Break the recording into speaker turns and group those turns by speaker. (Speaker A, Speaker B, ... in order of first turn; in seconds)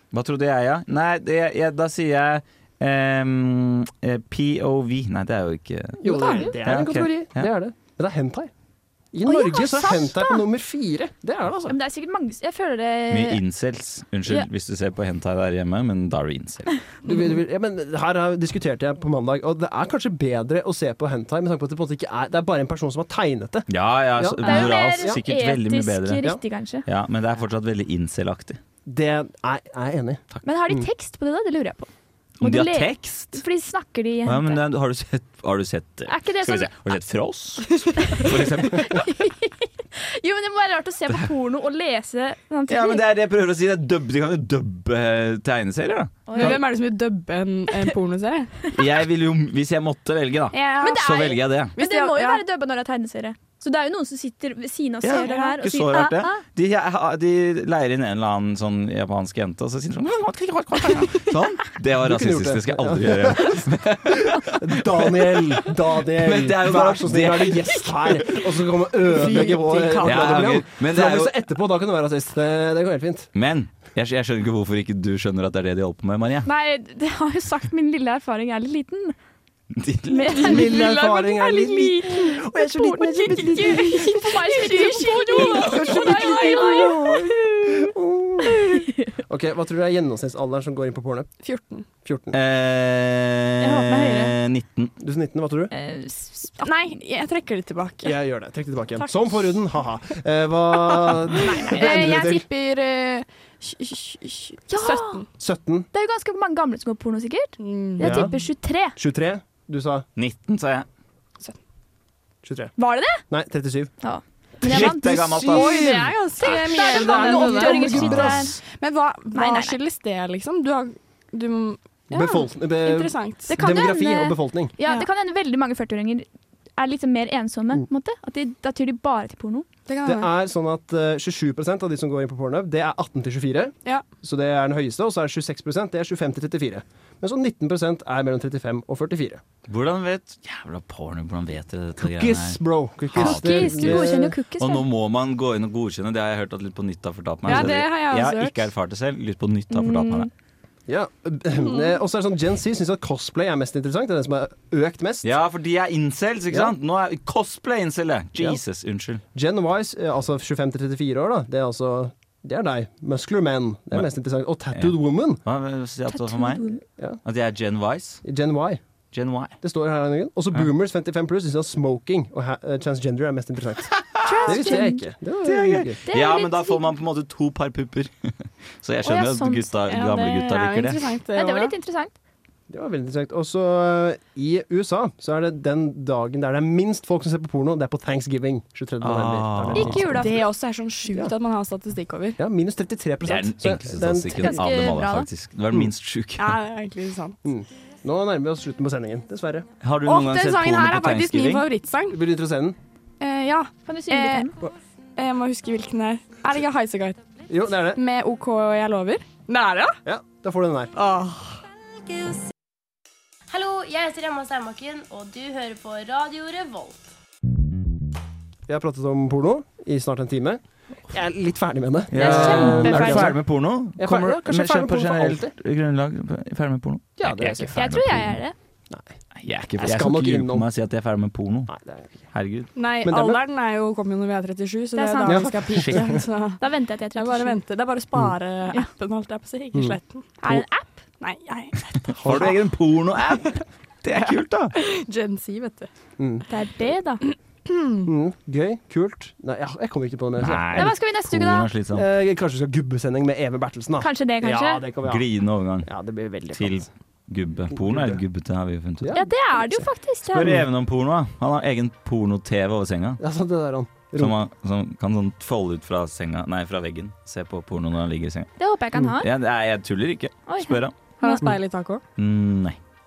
Speaker A: 0.1-7.5, 13.1-16.8, 23.7-26.2, 26.8-28.6, 32.4-33.4, 34.2-39.0, 42.7-46.6, 48.7-51.7, 55.0-65.4, 66.1-68.2, 70.0-71.3, 73.3-76.5, 79.8-80.5, 92.3-94.9, 110.2-110.9, 114.6-116.0, 117.8-118.5, 139.7-150.3, 155.2-159.2, 164.7-166.6, 167.2-168.2, 169.1-169.6, 174.1-174.9, 175.4-181.0, 189.0-190.3, 193.2-196.6, 199.8-201.7, 222.1-228.4, 229.3-231.7, 232.3-232.7, 235.8-236.2, 242.2-244.7, 250.4-252.1, 255.0-255.9, 256.5-259.1, 260.3-263.2, 264.1-268.5, 269.1-270.9, 272.1-272.8
Speaker B: 6.0-8.5, 9.1-11.8, 17.0-25.2, 28.9-30.9, 62.0-73.3, 80.4-84.2, 85.3-91.3, 92.0-92.4, 95.0-95.7, 98.0-102.4, 105.4-105.9, 108.0-108.4, 108.9-110.0, 112.4-112.7, 113.3-113.9, 116.4-118.5, 122.1-124.7, 130.0-139.4, 142.0-144.4, 147.5-147.7, 150.9-155.4, 159.3-165.4, 168.2-168.8, 169.6-176.0, 182.7-190.3, 192.4-194.9, 197.4-199.7, 202.1-202.8, 207.5-208.0, 210.1-210.9, 218.7-223.4, 223.9-225.5, 227.2-227.9, 228.9-229.2, 229.8-230.7, 231.7-232.2, 233.0-233.4, 235.2-236.0, 239.7-240.6, 242.1-242.6, 246.2-246.4, 248.1-250.9, 251.9-255.3, 255.8-256.9, 257.7-258.2, 259.0-259.8, 263.2-264.4
Speaker C: 6.0-6.5, 46.4-48.6, 50.5-51.1, 51.7-52.4, 55.2-55.5, 69.0-70.6, 80.3-87.5, 91.4-91.9, 96.6-98.2, 99.0-99.5, 101.0-105.2, 107.6-108.2, 115.4-123.5, 129.9-130.3, 147.4-148.7, 179.9-181.7, 190.0-192.4, 196.4-197.4, 200.0-202.2, 203.2-204.6, 205.2-207.2, 207.8-210.0, 210.9-211.6, 232.7-236.6, 237.1-240.3, 241.2-242.6, 244.2-245.9, 247.7-248.0, 271.2-272.0
Speaker D: 9.2-10.4, 11.7-13.4, 24.4-26.8, 30.4-31.9, 32.4-34.6, 36.1-36.7, 38.1-43.0, 46.3-46.6, 50.8-56.4, 76.4-79.1, 80.1-80.9, 83.3-87.0, 93.6-94.3, 95.7-97.0, 101.4-102.0, 104.7-105.2, 105.9-109.0, 112.8-113.2, 114.0-118.6, 119.3-119.8, 123.5-129.7, 143.2-144.8, 149.7-150.3, 166.1-166.8, 174.2-175.1, 176.1-176.9, 179.0-179.7, 181.3-182.1, 189.7-190.3, 194.3-195.3, 203.9-204.5, 222.1-223.3, 227.7-228.6, 234.9-235.9, 236.6-237.6, 240.4-241.0, 246.5-247.2, 250.7-251.7, 254.0-254.8, 259.1-260.6, 268.6-269.3, 270.5-271.4
Speaker E: 213.5-217.1